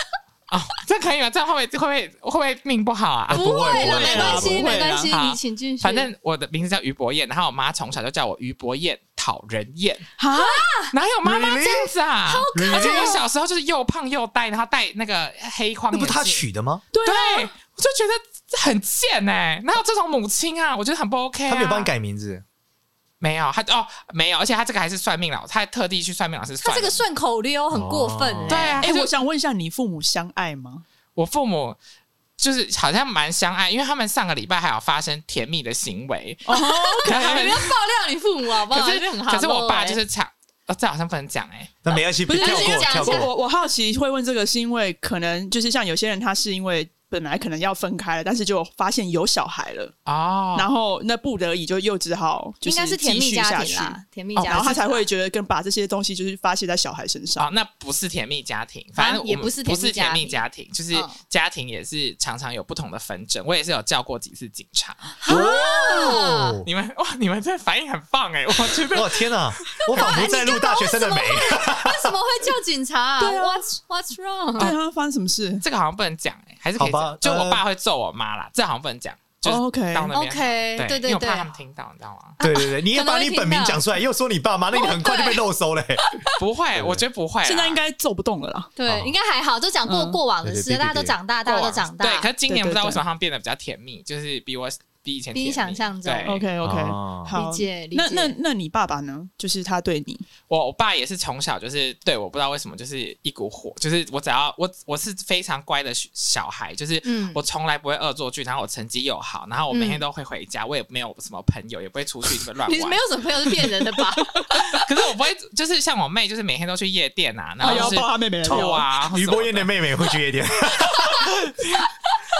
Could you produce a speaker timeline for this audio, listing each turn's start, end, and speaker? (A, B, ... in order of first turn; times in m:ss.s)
0:00.5-0:04.5 A
0:03.3-0:04.8 B
0:03.3-0:06.1 C
0:03.7-0:05.1 D
0:05.1-0:10.1 A
0:10.2-0:10.7 D
0:10.3-0:10.9 C
0:10.9-0:16.4 A
0:11.2-0:11.9 B
0:12.2-0:13.2 C
0:12.5-0:13.2 B
0:15.9-0:16.8 B
0:16.9-0:17.5 D
0:17.0-0:21.9 A
0:21.4-0:22.4 B
0:23.2-0:27.0 A
0:26.6-0:28.8 C
0:27.7-0:28.8 B
0:28.5-0:29.1 A
0:28.8-0:30.8 D
0:31.2-0:31.8 A
0:32.4-0:37.8 A
0:36.4-0:37.4 D
0:36.9-0:40.0 C
0:38.7-0:41.7 A
0:41.8-0:43.3 B
0:42.3-0:43.3 C
0:42.3-0:49.9 D
0:50.0-0:50.7 A
0:50.5-0:54.0 D
0:52.6-0:55.0 C
0:54.4-0:54.8 A
0:54.5-0:57.5 D
0:57.4-1:05.2 A
0:59.0-1:01.1 C
1:05.2-1:06.6 C
1:05.3-1:06.7 B
1:06.6-1:10.4 A
1:08.9-1:12.1 B
1:09.9-1:14.7 C
1:13.2-1:13.7 D
1:14.6-1:15.6 D
1:15.6-1:22.4 A
1:16.8-1:17.6 B
1:19.4-1:20.1 D
1:20.1-1:21.5 C
1:22.4-1:23.8 C
1:22.4-1:26.1 B
1:24.7-1:25.4 C
1:26.4-1:27.8 A
1:26.7-1:27.0 B
1:27.4-1:28.7 D
1:28.8-1:32.3 C
1:28.8-1:29.1 B
1:29.8-1:30.2 D
1:30.4-1:31.2 B
1:31.4-1:36.4 A
1:32.5-1:33.0 D
1:35.3-1:36.4 C
1:36.2-1:40.2 D
1:36.6-1:37.4 B
1:37.3-1:38.3 C
1:40.5-1:53.0 A
1:47.0-1:47.4 C
1:49.7-1:50.0 C
1:52.6-1:54.4 C
1:54.2-1:54.8 D
1:54.7-1:59.7 A
1:57.6-1:58.0 C
1:57.6-1:58.8 D
1:58.4-2:01.3 B
2:01.6-2:01.9 A